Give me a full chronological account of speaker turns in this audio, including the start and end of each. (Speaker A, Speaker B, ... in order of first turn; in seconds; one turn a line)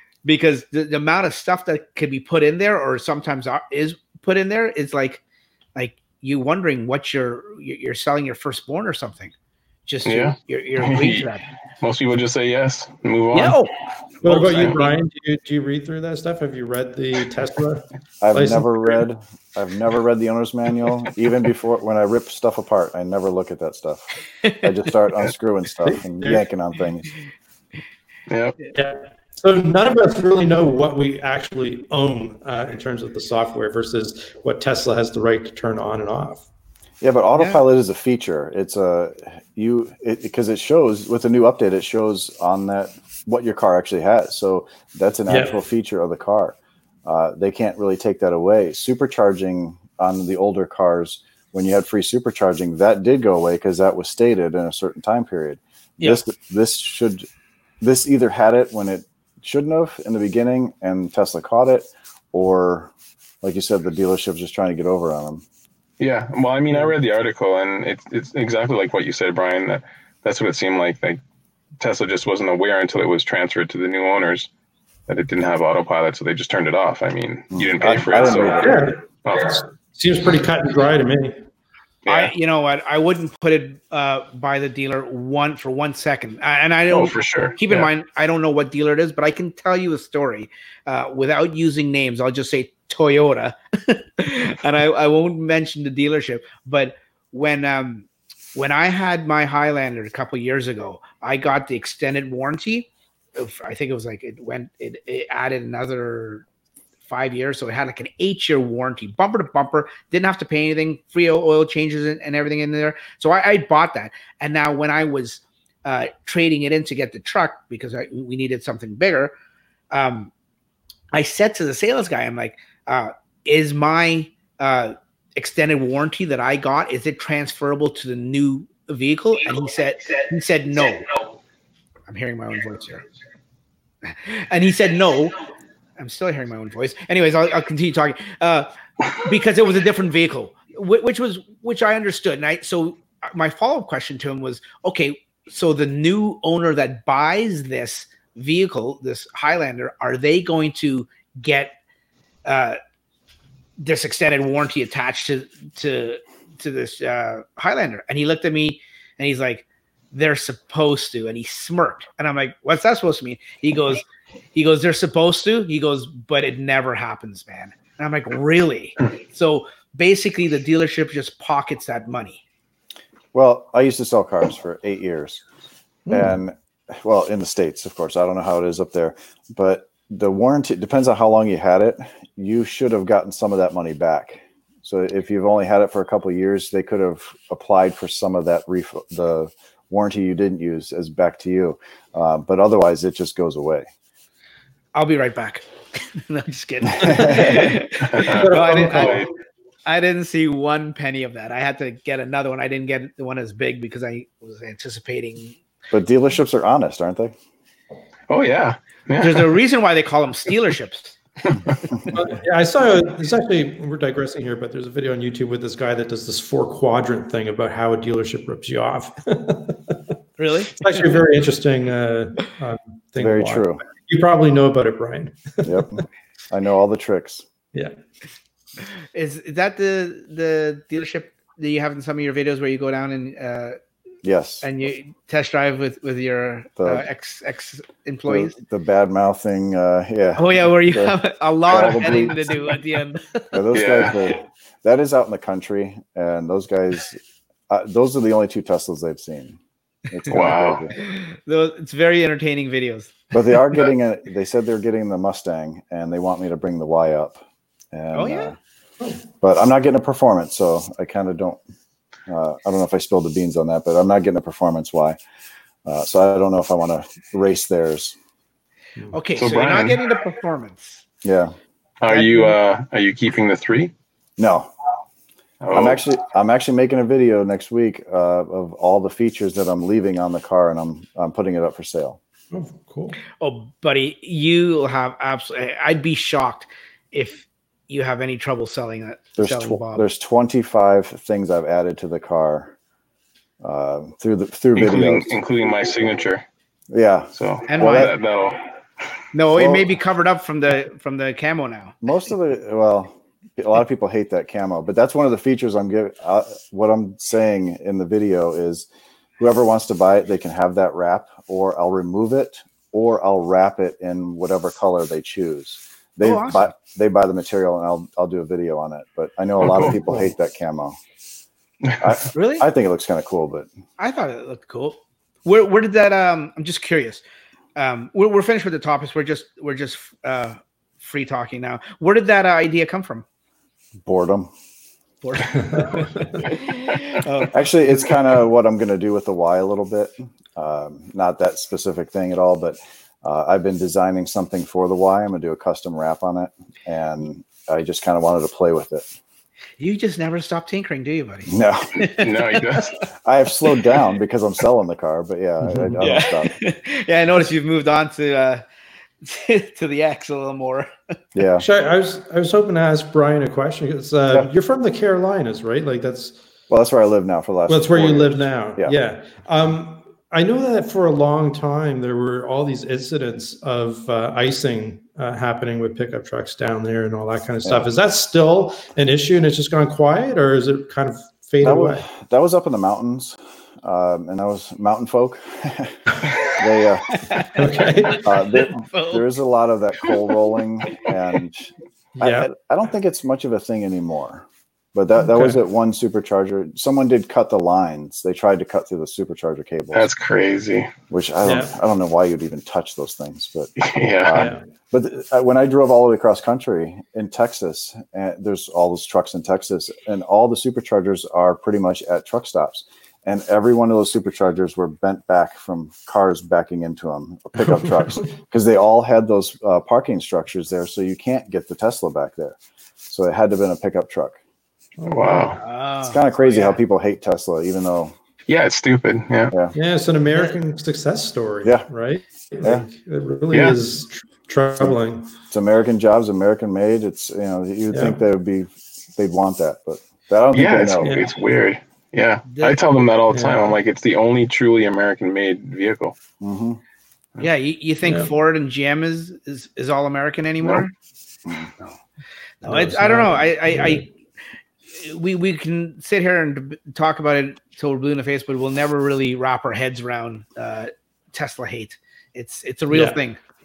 Speaker A: 0.2-5.2
Speaker A: 5.8-9.3
Speaker A: 9.9-11.5
Speaker B: 10.1-11.3
Speaker B: 11.8-13.6
Speaker A: 13.3-14.8
Speaker C: 14.2-18.7
Speaker B: 14.3-14.8
Speaker D: 18.2-27.1
Speaker C: 25.9-26.4
Speaker B: 28.3-28.6
Speaker C: 28.7-36.5
Speaker D: 37.0-57.2
Speaker A: 37.4-37.6
Speaker C: 45.3-45.5
Speaker D: 57.8-65.4
Speaker B: 66.0-71.2
Speaker B: 71.8-74.5
Speaker B: 75.1-79.6
Speaker D: 77.6-79.0
Speaker C: 78.6-81.4
Speaker B: 82.0-82.3
Speaker A: 82.1-106.5
Speaker B: 86.9-87.9
Speaker A: 107.1-119.3
Speaker A: 119.9-120.3
Speaker A: 121.1-131.1
Speaker A: 132.1-133.1
Speaker A: 134.1-135.4
Speaker A: 136.0-151.8
Speaker A: 152.5-152.8
Speaker A: 153.8-172.4
Speaker D: 173.3-175.4
Speaker C: 176.1-176.3
Speaker D: 176.1-193.9
Speaker A: 194.9-199.3
Speaker C: 197.0-199.2
Speaker D: 197.0-197.4
Speaker B: 198.0-199.3
Speaker A: 199.9-205.6
Speaker D: 205.9-207.3
Speaker B: 208.3-209.6
Speaker A: 209.2-211.6
Speaker C: 212.1-220.0
Speaker A: 220.4-220.8
Speaker C: 220.8-226.0
Speaker D: 223.2-223.8
Speaker D: 225.6-227.4
Speaker A: 229.1-233.8
Speaker D: 234.2-234.7
Speaker A: 234.6-238.6
Speaker D: 236.8-237.0
Speaker D: 238.3-241.2
Speaker A: 240.4-243.6
Speaker D: 241.7-242.5
Speaker D: 243.5-249.6
Speaker B: 243.7-244.2
Speaker D: 250.1-250.9
Speaker B: 250.3-250.9
Speaker A: 251.0-253.3
Speaker D: 253.3-258.6
Speaker A: 258.1-258.5
Speaker D: 259.4-261.6
Speaker D: 262.3-265.2
Speaker D: 265.9-268.2
Speaker A: 269.1-271.0
Speaker B: 269.4-270.0
Speaker D: 271.2-271.5
Speaker B: 272.0-273.9
Speaker A: 272.1-272.6
Speaker D: 274.4-274.7
Speaker B: 275.6-276.0
Speaker D: 275.7-282.2
Speaker C: 282.5-283.2
Speaker A: 283.4-290.1
Speaker D: 289.4-292.7
Speaker D: 293.6-295.3
Speaker B: 294.8-296.4
Speaker D: 296.9-298.1
Speaker B: 297.4-298.7
Speaker A: 297.7-298.1
Speaker A: 299.3-302.0
Speaker D: 299.5-299.9
Speaker D: 302.0-308.9
Speaker D: 309.4-321.0
Speaker A: 316.2-316.7
Speaker B: 319.6-320.0
Speaker B: 321.8-322.1
Speaker D: 322.0-323.7
Speaker A: 322.3-322.7
Speaker A: 324.0-327.2
Speaker A: 327.8-333.2
Speaker D: 334.0-334.5
Speaker A: 335.2-338.1
Speaker D: 337.5-349.1
Speaker A: 349.8-352.9
Speaker D: 351.5-352.1
Speaker B: 352.2-353.0
Speaker D: 353.2-356.5
Speaker C: 355.6-356.0
Speaker A: 356.0-358.6
Speaker A: 359.2-360.9
Speaker D: 361.4-361.6
Speaker C: 361.6-366.4
Speaker D: 366.7-368.9
Speaker C: 367.7-382.1
Speaker D: 381.6-387.2
Speaker A: 387.1-387.6
Speaker C: 387.5-388.3
Speaker D: 388.2-391.7
Speaker A: 388.5-389.3
Speaker C: 392.2-392.5
Speaker D: 392.2-400.1
Speaker C: 395.2-395.6
Speaker B: 399.9-400.9
Speaker D: 401.1-424.4
Speaker C: 401.4-401.7
Speaker B: 403.8-404.5
Speaker C: 404.3-404.6
Speaker C: 417.6-418.2
Speaker C: 425.0-425.6
Speaker B: 425.1-425.6
Speaker A: 425.6-426.8
Speaker D: 426.1-428.1
Speaker B: 428.5-429.5
Speaker C: 429.8-435.3
Speaker B: 433.5-433.8
Speaker D: 435.5-441.1
Speaker C: 437.9-438.2
Speaker B: 440.5-446.1
Speaker C: 441.0-441.3
Speaker A: 442.5-442.8
Speaker C: 443.3-443.6
Speaker D: 446.4-446.8
Speaker A: 447.4-450.9
Speaker C: 448.1-448.3
Speaker D: 451.5-451.7
Speaker A: 452.6-454.1
Speaker C: 452.6-454.0
Speaker A: 454.9-463.4
Speaker C: 462.9-463.2